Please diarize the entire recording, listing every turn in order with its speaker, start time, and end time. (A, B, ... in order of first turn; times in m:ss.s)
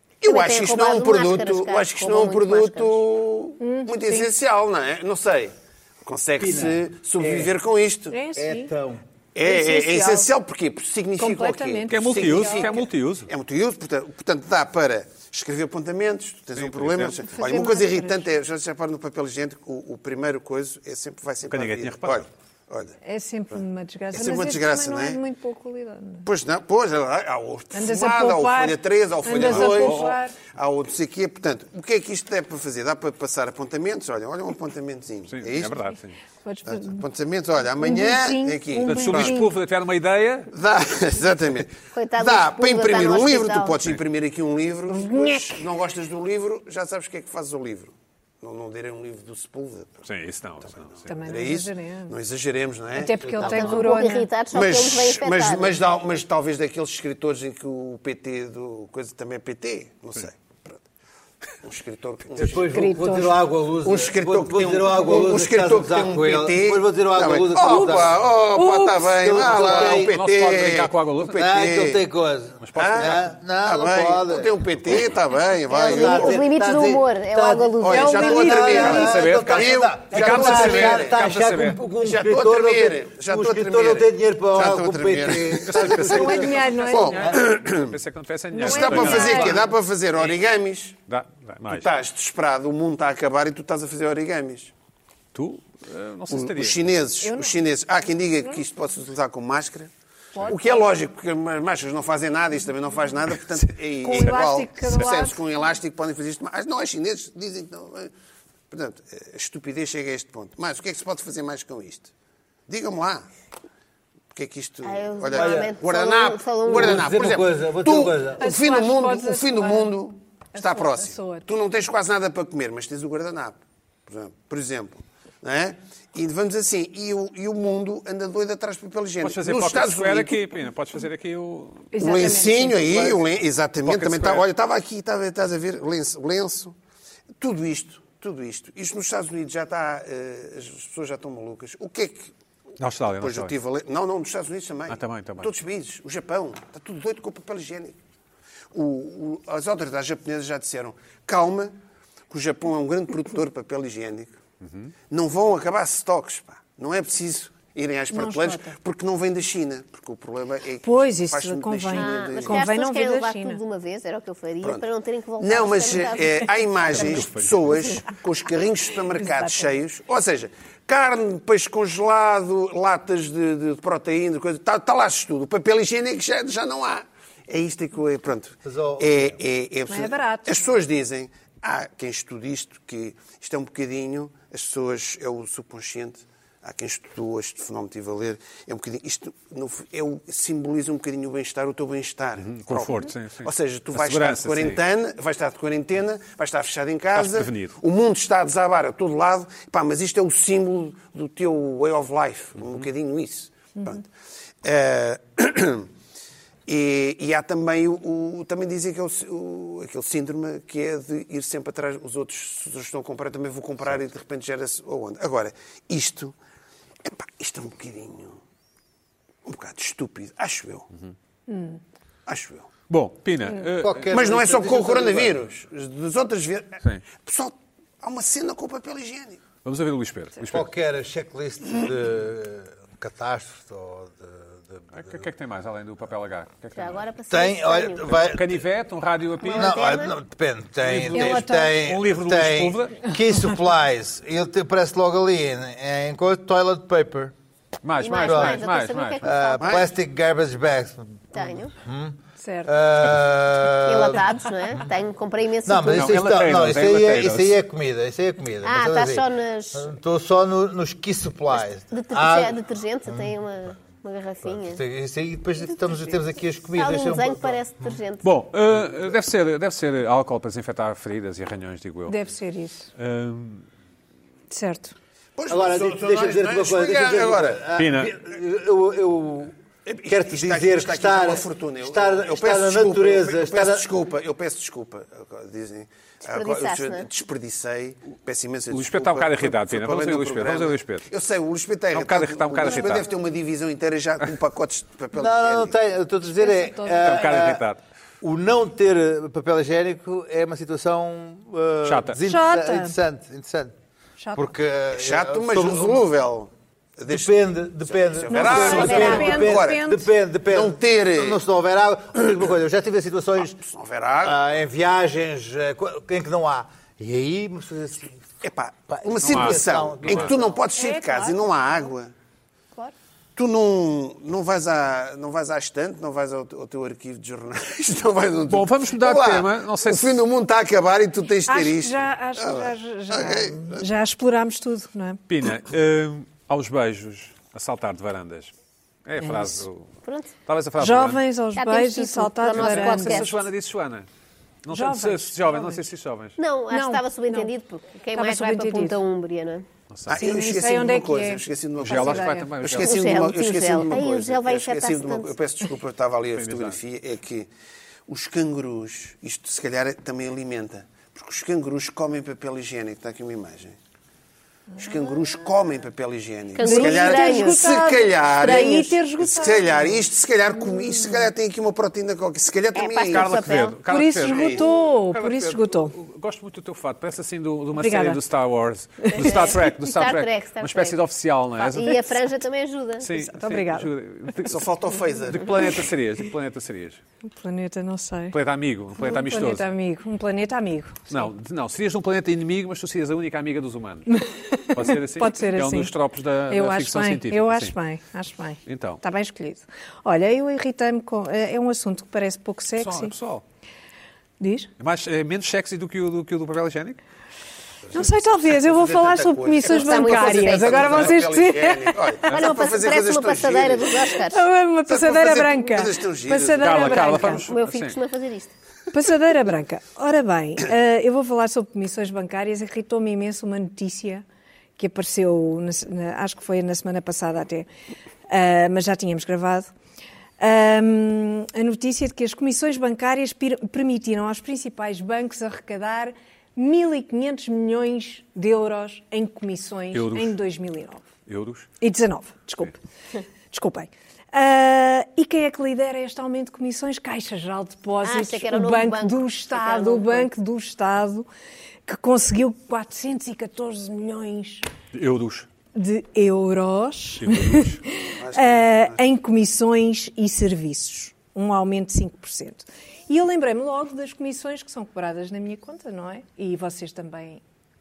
0:00.2-0:05.5 A
0:00.2-0:03.0 B
0:03.6-0:04.3 C
0:06.0-0:08.2 A
0:06.4-0:07.5 D
0:08.1-0:08.7 C
0:08.3-0:09.0 D
0:09.3-0:22.9 A
0:09.4-0:10.3 C
0:11.2-0:12.8 C
0:11.9-0:13.3 E
0:16.6-0:17.2 E
0:17.3-0:18.2 C
0:21.5-0:22.2 E
0:23.0-0:26.3 C
0:24.1-0:25.2 A
0:26.2-0:35.8 A
0:27.7-0:30.4 C
0:29.4-0:30.2 E
0:35.3-0:36.2 E
0:36.4-0:37.0 C
0:36.6-0:39.3 A
0:37.8-0:39.5 C
0:38.8-0:40.5 E
0:40.5-0:50.0 A
0:41.9-0:43.8 B
0:44.9-0:45.6 C
0:50.0-0:51.1 E
0:50.7-0:53.8 A
0:51.1-0:52.1 C
0:52.9-0:54.3 C
0:53.2-0:53.6 D
0:53.4-0:55.8 B
0:54.5-1:00.8 A
1:01.6-1:02.7 A
1:02.4-1:10.2 D
1:02.7-1:03.4 C
1:03.8-1:12.0 A
1:07.6-1:08.0 C
1:08.5-1:09.0 C
1:09.6-1:11.5 E
1:11.3-1:14.5 D
1:12.6-1:13.2 E
1:12.8-1:16.4 A
1:15.7-1:18.3 B
1:15.7-1:27.4 D
1:17.8-1:21.3 A
1:17.9-1:19.1 C
1:18.8-1:21.8 E
1:22.0-1:28.0 A
1:25.6-1:29.6 E
1:26.0-1:27.3 C
1:28.6-1:29.7 C
1:28.6-1:31.0 A
1:31.1-1:31.9 E
1:31.7-1:34.7 A
1:35.3-1:36.9 E
1:36.3-1:39.9 A
1:37.2-1:37.6 C
1:40.3-1:40.9 C
1:40.4-1:48.1 A
1:44.0-1:45.4 C
1:48.7-1:52.1 A
1:52.7-1:53.2 A
1:54.3-2:10.4 A
1:54.8-1:57.0 B
1:55.3-1:55.7 D
1:56.6-1:58.4 D
1:58.4-1:59.9 C
2:00.5-2:01.4 C
2:09.2-2:11.9 E
2:11.9-2:13.2 C
2:12.0-2:16.7 A
2:13.8-2:14.4 E
2:17.4-2:22.3 A
2:22.8-2:23.5 E
2:23.2-2:28.0 A
2:24.9-2:25.5 E
2:28.7-2:31.8 A
2:32.3-2:34.3 A
2:34.6-2:34.9 E
2:35.1-2:42.7 A
2:38.1-2:38.7 C
2:40.8-2:43.6 C
2:41.9-2:46.5 B
2:45.4-3:24.0 A
2:46.9-2:47.5 E
2:49.2-2:49.7 C
2:58.6-2:59.4 D
2:59.9-3:00.7 C
3:12.4-3:14.8 E
3:17.1-3:17.8 E
3:24.6-3:25.9 A
3:26.7-3:36.3 A
3:37.0-3:38.4 A
3:39.4-3:40.9 A
3:41.5-3:41.8 C
3:42.3-3:42.7 A
3:42.9-3:44.1 E
3:43.8-3:45.4 D
3:44.1-3:49.4 A
3:49.6-3:50.7 E
3:50.5-3:55.2 D
3:54.9-3:57.0 E
3:56.7-3:58.2 B
3:57.3-3:58.6 D
3:58.1-3:59.8 E
3:59.4-4:00.1 B
3:59.5-4:07.3 D
4:00.8-4:03.0 E
4:01.1-4:01.8 C
4:07.8-4:09.2 E
4:08.0-4:09.8 B
4:08.2-4:08.6 D
4:09.2-4:14.2 D
4:09.6-4:09.9 A
4:11.3-4:11.7 B
4:12.4-4:12.7 C
4:13.8-4:16.1 B
4:15.6-4:22.6 D
4:15.9-4:17.6 E
4:18.6-4:19.9 B
4:21.9-4:24.8 B
4:24.5-4:28.0 D
4:26.7-4:28.3 B
4:28.2-4:32.2 E
4:32.1-4:32.9 C
4:33.0-4:33.6 E
4:34.5-4:34.9 C
4:35.4-4:37.6 A
4:35.5-4:43.9 D
4:37.7-4:38.1 E
4:39.8-4:55.8 A
4:46.2-4:47.1 B
4:48.7-4:51.0 E
4:51.9-4:53.0 E
4:55.1-4:57.6 D
4:56.4-4:57.2 C
4:57.0-4:57.8 E
4:58.2-5:03.7 D
5:01.8-5:02.2 E
5:02.3-5:02.9 C
5:04.2-5:04.5 C
5:04.3-5:06.0 D
5:04.9-5:09.8 A
5:07.1-5:13.6 D
5:08.3-5:10.1 C
5:08.6-5:09.4 B
5:10.5-5:11.4 A
5:13.4-5:14.4 A
5:14.2-5:18.2 D
5:18.4-5:22.1 A
5:18.9-5:20.6 D
5:19.2-5:20.3 E
5:20.7-5:21.9 C
5:23.4-5:33.8 A
5:28.5-5:30.2 E
5:31.4-5:35.2 C
5:35.3-5:38.5 E
5:39.0-5:39.9 E
5:39.2-5:39.6 C
5:40.0-5:40.3 B
5:40.4-5:41.2 E
5:40.8-5:43.3 C
5:41.5-5:43.4 B
5:42.5-5:44.1 E
5:44.6-5:46.4 E
5:44.7-5:45.8 C
5:46.4-5:49.6 B
5:46.7-5:47.5 C
5:48.1-5:49.0 C
5:49.9-5:50.2 E
5:50.1-5:57.5 A
5:50.1-5:52.5 C
5:51.8-5:53.1 E
5:52.8-5:55.3 B
5:56.3-5:56.8 E
5:58.1-6:03.8 A
6:04.8-6:13.6 A
6:06.5-6:07.7 B
6:06.6-6:10.0 C
6:08.4-6:08.9 B
6:12.7-6:13.7 B
6:13.1-6:22.1 E
6:13.9-6:15.9 C
6:14.2-6:14.6 A
6:17.8-6:18.2 C
6:19.1-6:21.0 B
6:21.7-6:23.1 B
6:23.0-6:24.7 E
6:23.2-6:23.9 C
6:24.4-6:25.8 A
6:25.2-6:27.0 E
6:27.3-6:28.3 C
6:28.3-6:29.7 E
6:29.0-6:31.2 C
6:31.1-6:34.2 E
6:34.1-6:35.9 C
6:34.7-6:37.7 E
6:36.5-6:43.1 C
6:38.6-6:39.0 E
6:42.8-6:43.4 E
6:44.4-6:44.7 C
6:44.8-6:47.0 E
6:47.9-6:52.3 C
6:48.6-6:54.2 A
6:49.7-6:51.1 B
6:52.3-6:54.4 B
6:54.3-6:57.4 C
6:54.9-6:57.3 A
6:56.6-6:58.0 E
6:57.4-6:58.5 B
6:58.9-7:04.2 C
7:04.8-7:07.6 C
7:08.3-7:09.7 C
7:10.4-7:21.0 C
7:19.9-7:20.4 E
7:21.3-7:21.7 E
7:21.8-7:22.7 C
7:23.5-7:31.3 C
7:28.0-7:30.3 B
7:31.8-7:34.6 C
7:34.9-7:35.5 E
7:35.7-7:47.4 C
7:37.2-7:37.8 E
7:38.2-7:39.0 A